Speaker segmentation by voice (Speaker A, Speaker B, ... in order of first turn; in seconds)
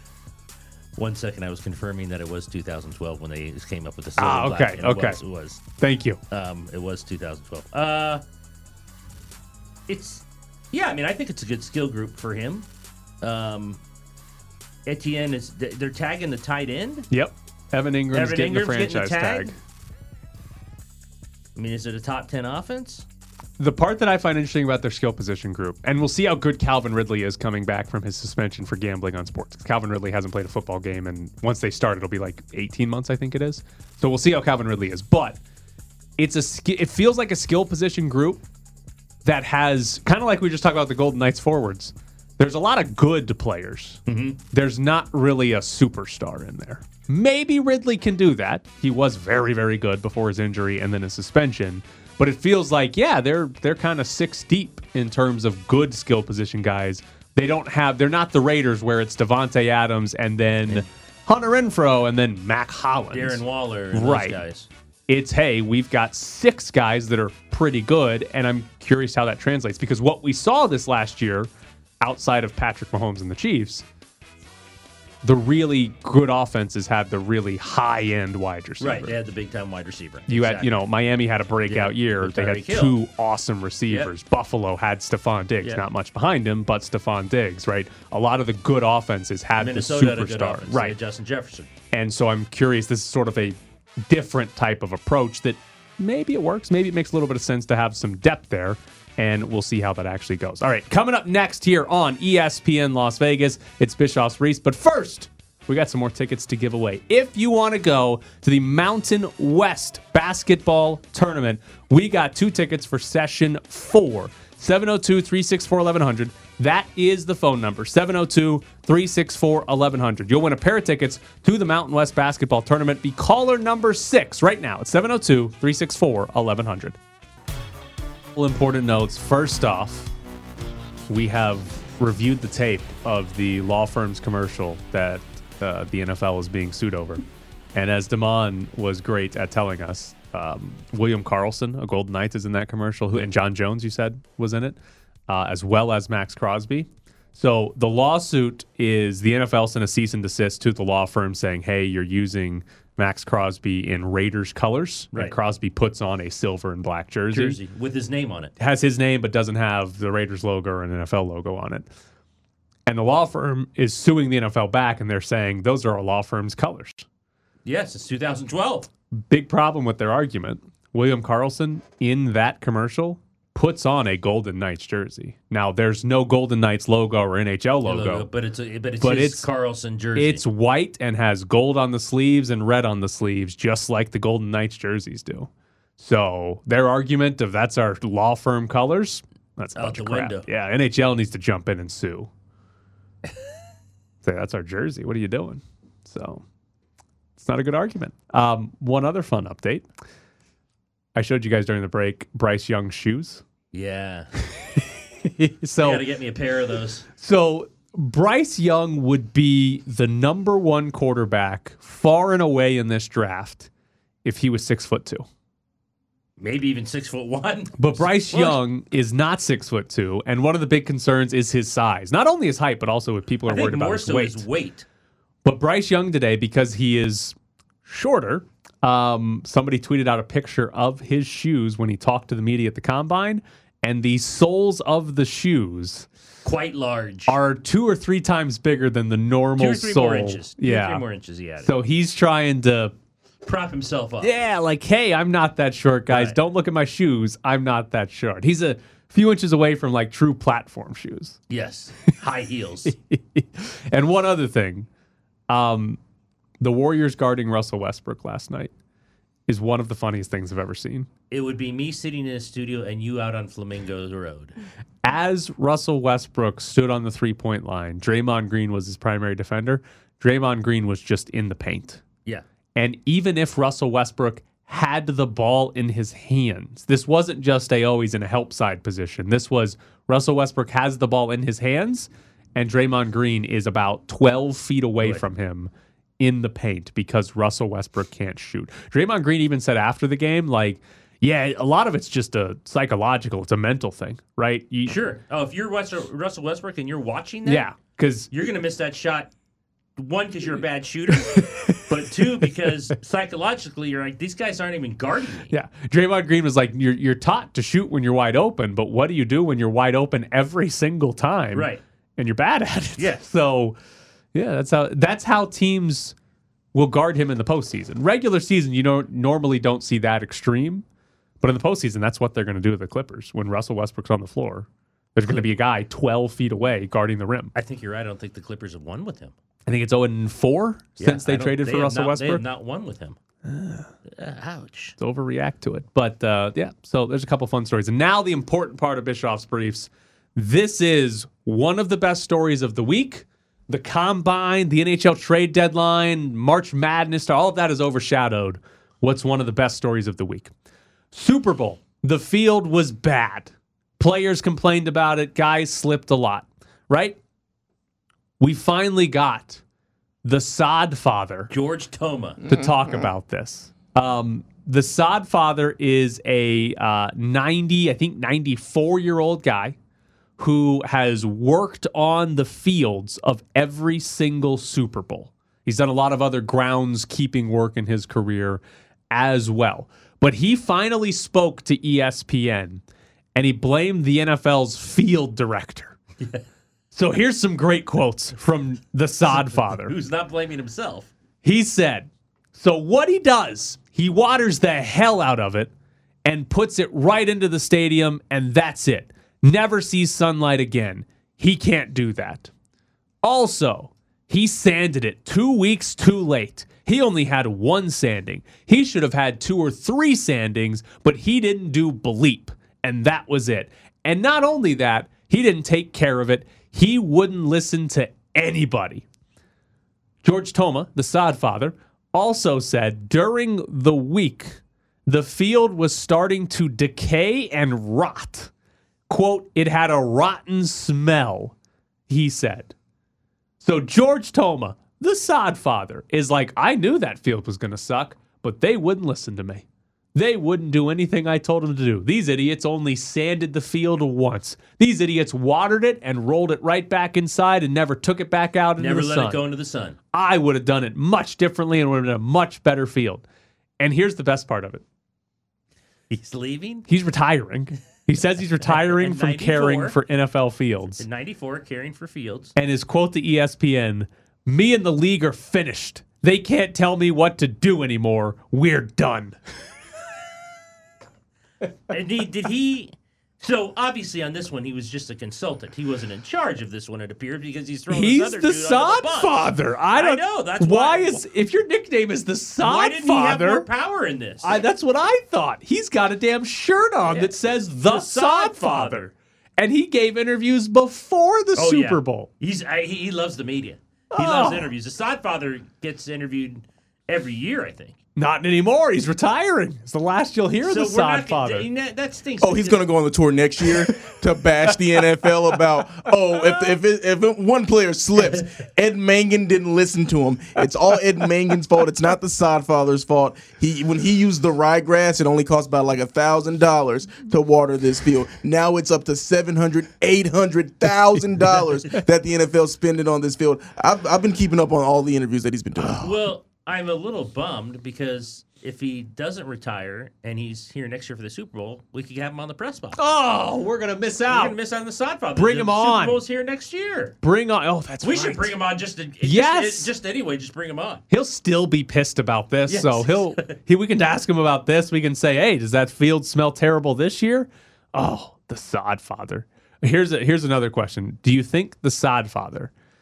Speaker A: 1.0-5.6, 6.3-8.2, 9.9-12.7, 13.2-13.8, 14.9-17.1, 18.1-19.5, 21.6-23.1, 44.1-44.4, 63.1-64.7, 78.8-80.7, 81.7-83.0, 89.6-91.7, 157.3-158.5, 167.7-168.9, 177.8-180.4, 189.8-190.5, 203.7-204.3, 205.8-207.1, 216.4-218.6, 223.5-224.8, 236.4-237.4, 239.6-241.7, 243.4-244.3, 246.1-246.4, 251.5-252.9, 261.3-264.6, 294.9-297.7, 298.3-299.3, 300.0-305.5, 311.5-311.8, 313.0-313.2, 327.6-329.3, 331.0-333.2, 334.1-335.0, 361.5-362.4, 389.3-391.1, 448.8-450.0, 456.1-456.9, 458.6-460.0, 461.0-462.5, 471.9-481.2, 482.6-484.6, 487.1-487.3, 487.9-489.1, 491.6-498.0, 500.6-502.8, 526.0-533.0, 534.3-537.2, 538.0-541.0, 542.7-543.6
Speaker B: 4.2-5.2, 5.8-6.2, 17.1-19.6, 23.6-35.4, 36.2-38.4, 39.2-44.0, 44.5-64.4, 65.1-71.5, 72.0-73.8, 75.2-79.2, 80.3-91.0, 91.9-127.0, 128.4-130.1, 131.1-144.8, 145.3-157.6, 158.6-161.9, 162.9-167.1, 169.2-178.3, 179.0-179.5, 180.2-192.3, 194.2-196.4, 197.4-199.9, 201.2-203.4, 204.8-206.1, 207.2-213.7, 214.2-215.3, 217.8-224.5, 225.4-227.3, 227.9-236.1, 237.3-241.1, 241.6-242.9, 244.2-251.4, 252.9-254.9, 255.5-256.0, 256.6-258.7, 259.5-261.1, 265.0-272.0, 272.8-295.0, 297.5-298.3, 301.2-302.0, 305.5-313.8, 314.3-316.1, 316.7-320.9, 321.4-327.5, 329.7-332.4, 333.4-333.9, 335.0-350.5, 351.1-357.2, 358.4-359.6, 360.2-361.5, 362.5-369.8, 370.4-382.8, 383.4-386.0, 386.9-389.9, 391.4-395.7, 396.2-402.5, 403.2-419.1, 420.2-428.5, 429.1-431.5, 432.1-432.7, 433.6-439.6, 440.1-449.4, 450.1-453.2, 453.8-454.8, 456.9-461.0, 462.6-469.4, 477.9-483.7, 484.4-492.3, 494.1-494.7, 498.2-501.7, 525.8-526.2, 533.0-534.6, 535.4-536.2, 537.2-538.5, 539.2-539.9, 541.1-552.7
Speaker C: 502.4-526.1